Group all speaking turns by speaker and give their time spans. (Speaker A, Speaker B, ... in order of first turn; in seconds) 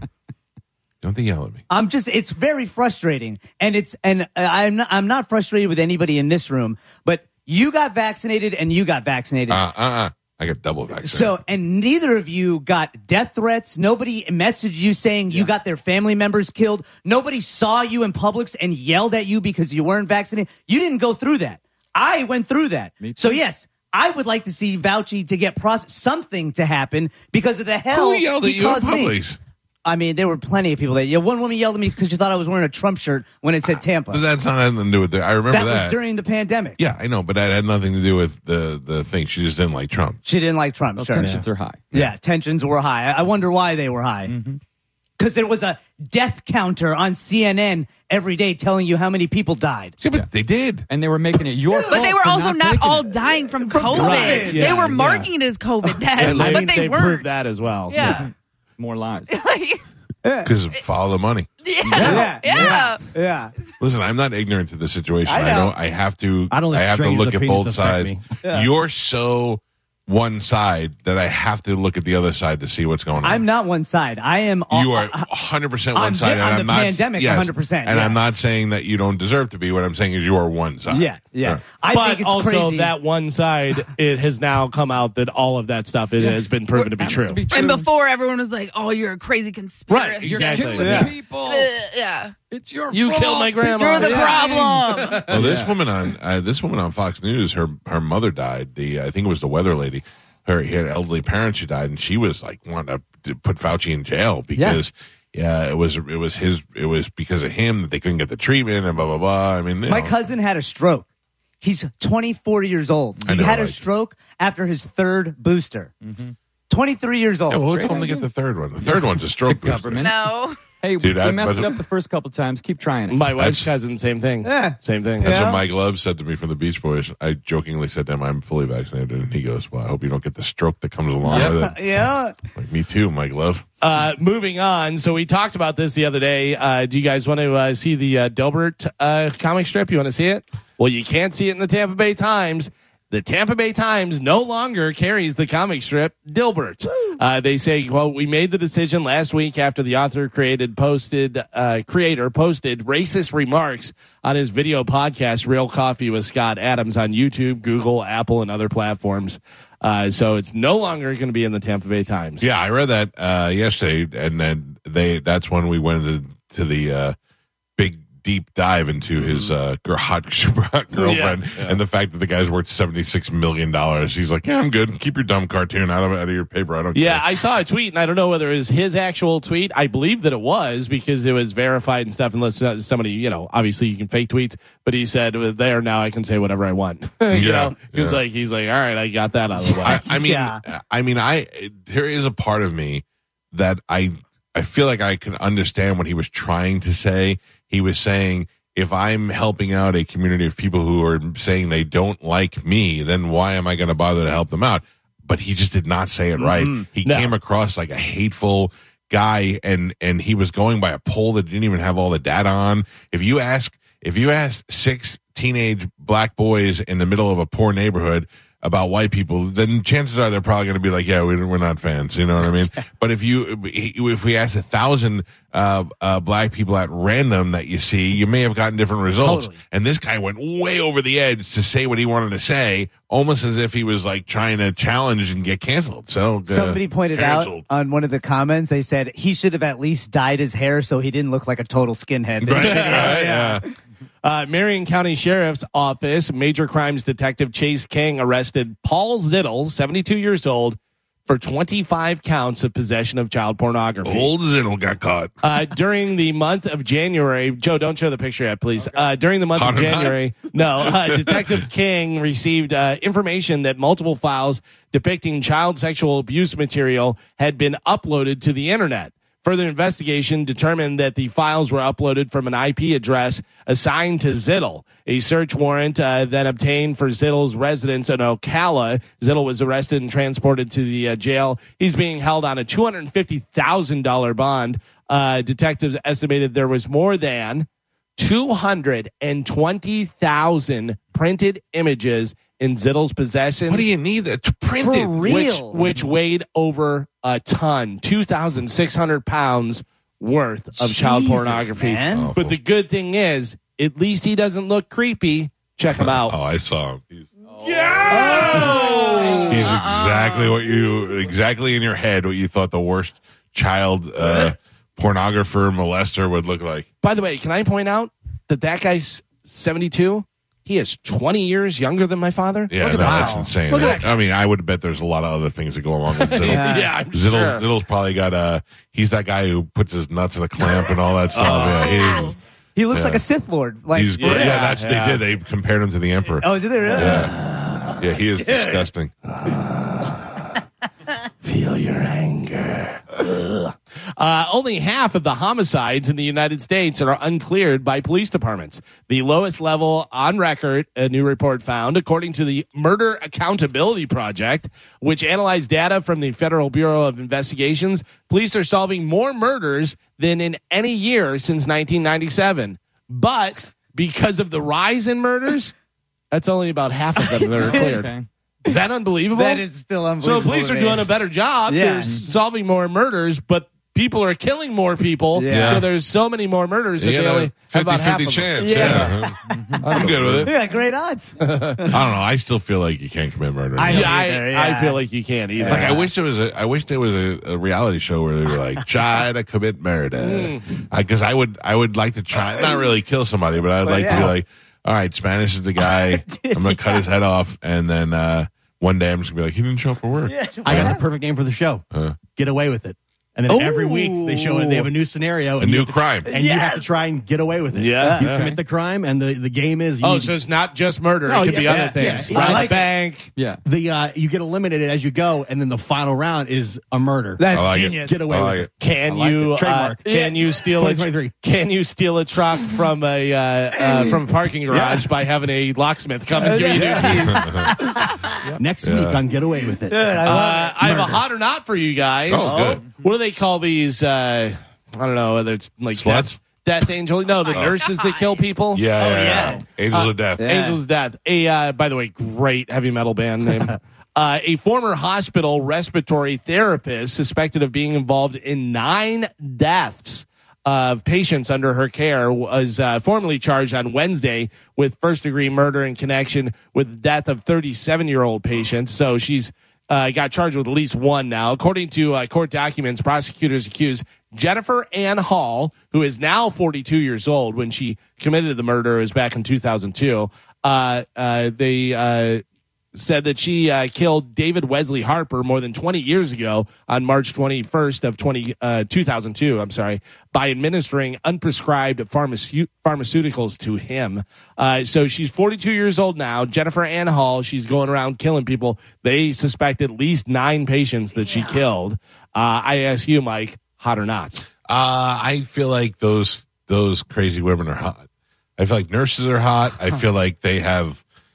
Speaker A: 1.0-1.6, 9.5-11.4, 27.9-29.4, 33.7-36.0, 36.8-40.2, 50.0-50.9, 60.5-61.5, 63.8-73.4, 74.7-81.6, 95.3-110.1, 113.3-113.8, 117.5-120.1, 121.0-121.8, 123.4-123.7, 125.2-131.8, 132.6-133.6, 162.4-167.2, 167.8-177.2, 187.3-188.2, 189.8-237.7, 242.4-243.7, 254.0-255.3, 259.6-260.2, 260.8-261.7, 293.7-295.5, 302.1-302.6, 306.0-307.3, 309.5-316.9, 322.7-332.4, 332.9-333.2, 333.9-337.4, 338.0-339.1, 375.5-375.9, 377.0-380.5, 381.9-384.2, 385.7-401.0, 401.9-402.2, 405.6-406.3, 417.5-418.7, 427.2-427.7, 428.8-429.2, 432.3-432.8, 435.9-436.4, 437.5-437.8, 438.7-440.5, 494.6-498.1, 498.6-501.0
Speaker B: 1.7-9.6, 11.0-29.2, 29.9-34.2, 35.5-36.8, 40.2-41.4, 41.9-44.3, 45.2-50.0, 51.7-52.1, 53.6-55.3, 60.2-60.5, 62.0-63.5, 65.3-65.7, 68.4-68.7, 73.2-75.3, 76.0-78.2, 80.9-82.9, 90.7-91.1, 104.5-104.8, 109.9-111.1, 111.6-115.9, 116.7-118.1, 124.4-125.6, 131.3-132.3, 189.7-190.6, 206.4-206.9, 229.2-229.6, 236.5-243.7, 294.8-295.8, 300.8-302.3, 308.1-309.6, 322.9-324.0, 326.4-326.9, 332.8-334.7, 336.4-337.3, 338.4-338.9, 367.6-367.9, 369.3-371.1, 371.7-372.2, 375.4-375.9, 378.6-381.9, 383.8-385.0, 385.6-386.0, 393.8-394.3, 395.9-397.0, 400.3-401.0, 403.5-404.9, 406.3-406.9, 408.0-408.3, 411.6-412.9, 417.4-418.2, 426.4-428.1, 429.9-431.0, 432.4-432.8, 439.0-439.6, 440.4-440.8
Speaker C: 23.0-23.4, 41.0-41.9, 44.3-44.6, 50.9-53.4, 54.0-54.9, 58.0-58.3, 58.8-59.3, 86.2-87.9, 90.2-91.7, 92.4-94.8, 116.0-116.3, 119.5-123.4, 131.3-131.6, 367.5-368.3, 379.5-379.9, 408.2-408.6, 413.4-413.6, 419.1-419.5
Speaker D: 41.2-41.5, 54.0-54.5, 56.3-56.6, 62.0-62.3, 66.5-68.2, 400.6-410.3, 411.3-412.9, 413.6-418.7, 419.5-421.4, 424.7-425.1, 426.5-427.1, 428.6-431.2
Speaker E: 51.9-57.3, 57.9-58.3, 59.3-59.8, 61.6-63.0, 87.5-92.4, 93.7-95.3, 120.0-120.6, 308.5-310.6, 437.3-438.5
Speaker F: 54.2-55.1, 56.2-58.1, 81.9-87.4, 89.9-91.1, 92.9-95.7, 123.1-125.3, 133.8-162.5, 170.9-171.8, 176.9-190.0, 207.0-207.3, 242.5-243.2, 244.2-254.3, 255.4-287.7, 288.2-293.9, 295.2-306.4, 307.6-309.7, 317.0-324.1, 326.2-327.6, 331.3-332.2, 334.2-335.2, 336.9-338.0, 339.3-340.5, 341.4-365.8, 366.3-368.1, 368.6-369.6, 370.2-379.1, 379.9-380.5, 381.4-381.9, 383.9-386.0, 390.2-390.7, 407.7-408.6, 410.0-413.3, 418.8-427.6, 430.2-439.6, 440.4-472.4, 472.9-494.4